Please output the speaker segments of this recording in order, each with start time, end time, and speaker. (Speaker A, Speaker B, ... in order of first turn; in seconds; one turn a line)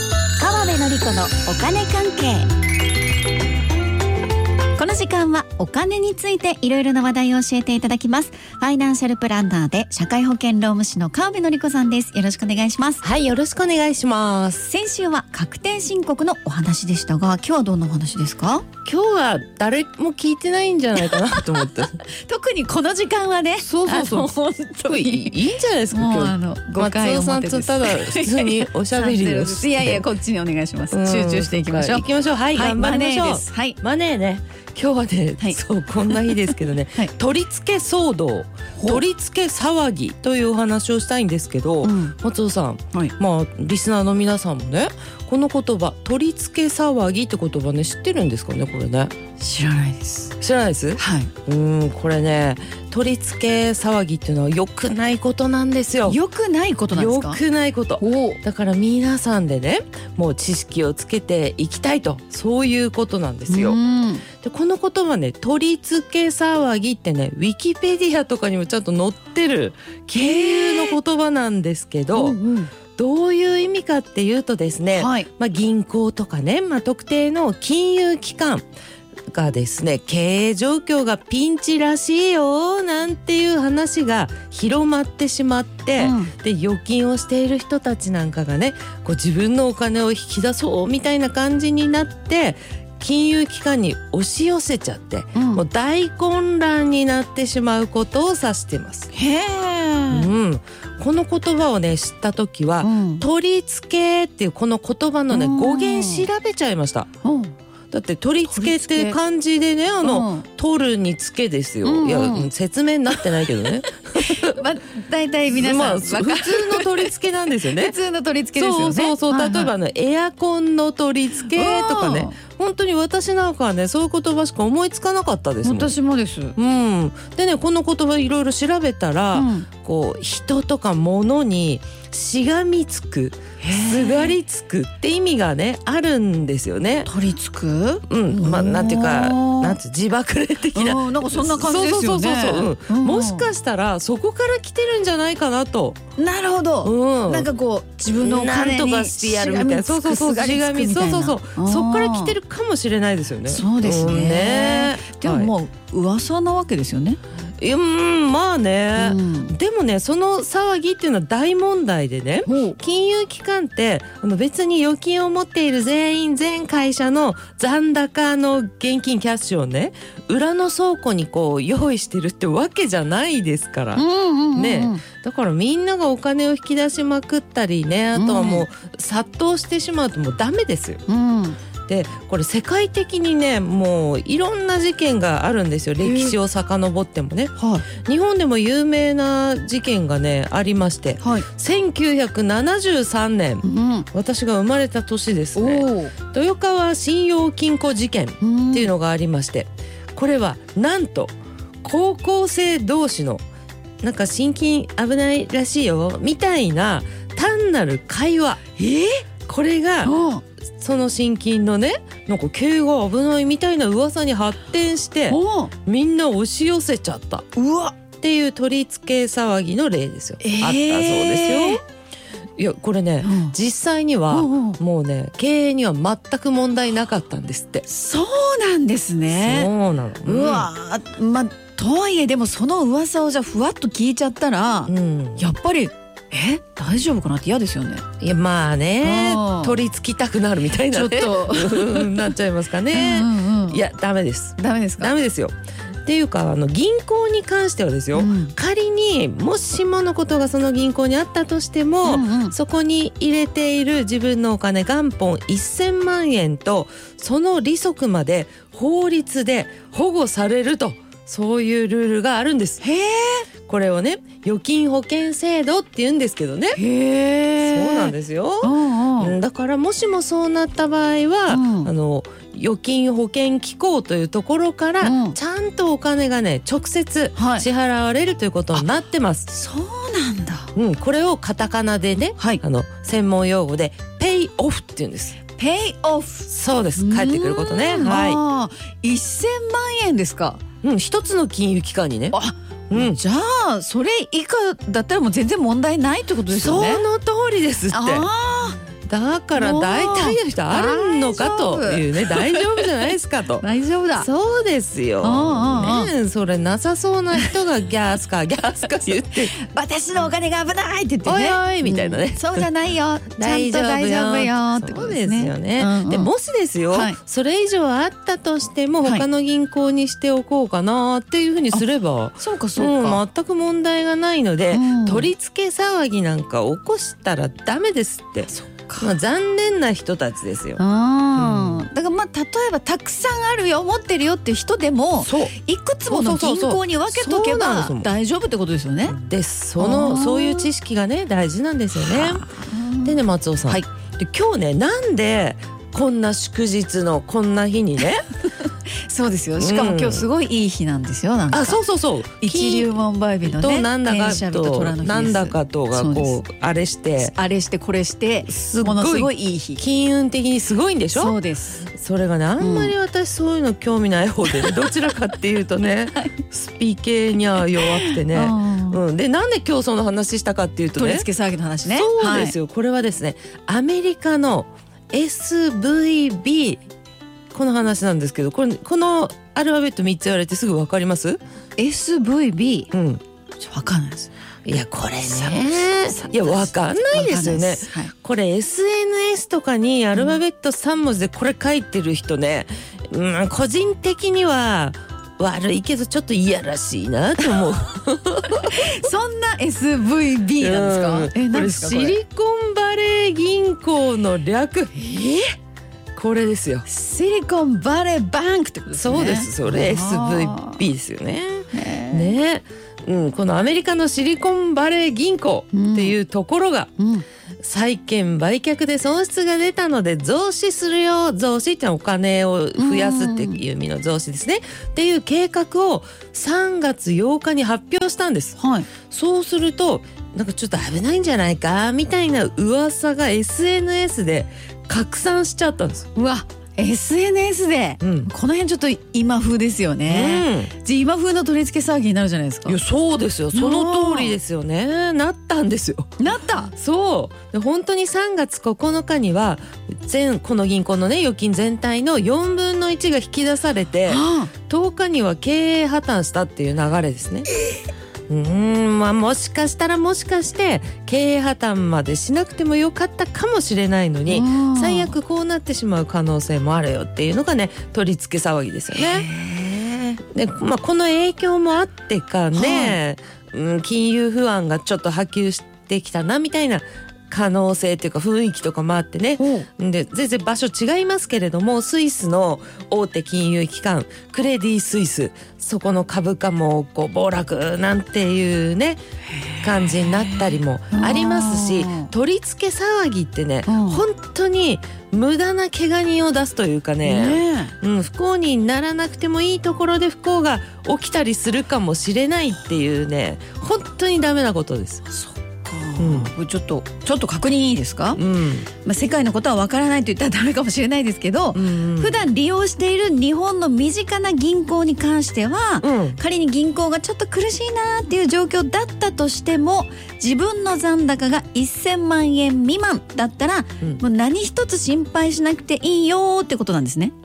Speaker A: 0.4-2.5
Speaker A: 4.8-13.0
Speaker B: 13.0-14.7
Speaker A: 14.7-18.7
Speaker B: 18.9-22.0
Speaker A: 21.0-21.5
Speaker A: 22.2-25.4
Speaker B: 23.6-24.3
Speaker B: 24.9-30.1
Speaker A: 25.9-33.8
Speaker B: 30.9-49.1
Speaker A: 35.4-37.1
Speaker A: 38.8-39.0
Speaker A: 41.8-42.1
Speaker A: 49.4-50.3
Speaker B: 50.4-56.2
Speaker A: 51.0-51.3
Speaker A: 56.1-57.4
Speaker B: 56.9-63.8
Speaker A: 58.0-58.4
Speaker A: 63.5-64.2
Speaker B: 64.4-72.4
Speaker A: 70.2-71.0
Speaker A: 72.1-72.7
Speaker B: 73.0-78.7
Speaker A: 74.9-75.3
Speaker B: 79.3-99.1
Speaker A: 86.0-86.3
Speaker A: 95.3-95.6
Speaker A: 99.1-100.3
Speaker B: 100.1-107.1
Speaker A: 102.8-103.2
Speaker A: 105.3-106.3
Speaker A: 107.2-107.5
Speaker B: 107.9-114.6
Speaker A: 108.5-109.2
Speaker A: 110.0-110.5
Speaker A: 111.8-112.5
Speaker A: 114.1-119.7
Speaker B: 115.5-118.0
Speaker B: 118.6-125.9
Speaker A: 121.5-122.3
Speaker A: 125.6-126.6
Speaker B: 126.6-137.1
Speaker A: 129.3-129.7
Speaker A: 133.6-134.3
Speaker A: 137.1-139.8
Speaker B: 138.1-146.0
Speaker A: 140.7-143.5
Speaker A: 146.2-152.4
Speaker B: 146.8-147.5
Speaker B: 148.2-155.5
Speaker A: 153.5-157.2
Speaker B: 157.6-181.0
Speaker A: 159.0-159.6
Speaker A: 162.4-162.8
Speaker A: 173.9-175.0
Speaker A: 178.2-178.7
Speaker A: 181.1-181.6
Speaker B: 181.9-203.4
Speaker A: 186.0-186.4
Speaker A: 187.6-187.8
Speaker A: 191.2-191.5
Speaker A: 193.6-194.1
Speaker A: 195.6-196.1
Speaker A: 198.4-198.9
Speaker B: 204.0-208.6
Speaker A: 208.8-209.2
Speaker B: 209.4-210.2
Speaker A: 210.0-210.4
Speaker B: 210.8-217.5
Speaker A: 215.3-215.7
Speaker A: 217.6-217.9
Speaker B: 218.2-221.8
Speaker A: 220.4-221.8
Speaker B: 222.6-227.8
Speaker A: 223.2-223.6
Speaker A: 224.3-224.8
Speaker A: 227.9-229.7
Speaker B: 229.3-230.7
Speaker A: 230.2-238.0
Speaker B: 234.9-235.5
Speaker B: 238.2-262.8
Speaker A: 239.0-239.8
Speaker A: 240.9-242.3
Speaker A: 242.9-243.8
Speaker A: 244.6-245.1
Speaker A: 248.1-248.5
Speaker A: 252.0-252.6
Speaker A: 262.8-263.5
Speaker B: 263.7-266.8
Speaker A: 266.7-269.4
Speaker B: 267.6-279.5
Speaker A: 271.5-271.9
Speaker A: 275.0-275.4
Speaker A: 277.4-277.7
Speaker A: 279.5-280.7
Speaker B: 280.8-285.4
Speaker A: 285.6-290.6
Speaker B: 286.5-288.4
Speaker B: 290.8-292.4
Speaker A: 292.3-297.1
Speaker B: 292.9-293.2
Speaker B: 296.5-298.3
Speaker A: 297.9-298.8
Speaker B: 299.1-303.6
Speaker A: 299.6-302.9
Speaker A: 303.6-304.3
Speaker B: 304.2-309.5
Speaker A: 305.2-306.1
Speaker A: 309.6-316.3
Speaker B: 311.2-312.7
Speaker B: 313.4-328.5
Speaker A: 316.9-317.2
Speaker A: 322.4-323.2
Speaker A: 324.7-325.3
Speaker A: 328.5-329.2
Speaker B: 329.0-330.8
Speaker A: 330.8-339.2
Speaker B: 331.4-331.9
Speaker B: 335.2-335.6
Speaker B: 336.1-338.1
Speaker B: 339.1-342.5
Speaker A: 339.8-340.7
Speaker A: 341.9-343.1
Speaker B: 343.0-348.2
Speaker A: 349.1-351.8
Speaker B: 349.6-350.3
Speaker B: 351.5-352.9
Speaker A: 352.4-356.4
Speaker B: 353.4-357.3
Speaker A: 357.2-359.8
Speaker B: 358.5-361.4
Speaker A: 361.1-361.9
Speaker B: 361.9-371.3
Speaker A: 362.6-362.9
Speaker A: 364.5-365.1
Speaker A: 367.8-369.0
Speaker A: 371.0-372.6
Speaker B: 371.8-376.8
Speaker B: 377.5-381.4
Speaker A: 381.8-382.9
Speaker B: 382.9-383.2
Speaker A: 383.6-384.3
Speaker B: 384.6-399.0
Speaker A: 385.2-388.1
Speaker A: 398.6-402.2
Speaker B: 400.6-405.0
Speaker A: 405.0-405.5
Speaker B: 406.1-406.9
Speaker A: 406.9-410.9
Speaker B: 408.9-416.9
Speaker A: 411.7-412.4
Speaker A: 415.7-416.2
Speaker A: 417.0-417.2
Speaker B: 417.6-436.1
Speaker A: 422.8-423.6
Speaker A: 428.6-428.9
Speaker A: 436.1-442.8
Speaker B: 438.0-438.3
Speaker B: 440.1-440.7
Speaker B: 442.7-446.1
Speaker A: 443.5-444.4
Speaker A: 446.2-446.7
Speaker B: 446.7-457.5
Speaker A: 454.1-454.5
Speaker B: 458.3-469.3
Speaker A: 464.3-465.1
Speaker A: 468.9-470.2
Speaker B: 470.3-489.0
Speaker A: 472.5-473.0
Speaker A: 479.4-479.7
Speaker A: 489.4-492.1
Speaker B: 489.6-505.0
Speaker A: 493.7-494.0
Speaker A: 497.0-497.7
Speaker A: 505.1-508.2
Speaker B: 506.0-506.3
Speaker B: 508.2-508.7
Speaker A: 508.7-527.1
Speaker B: 511.5-512.2
Speaker B: 515.8-516.2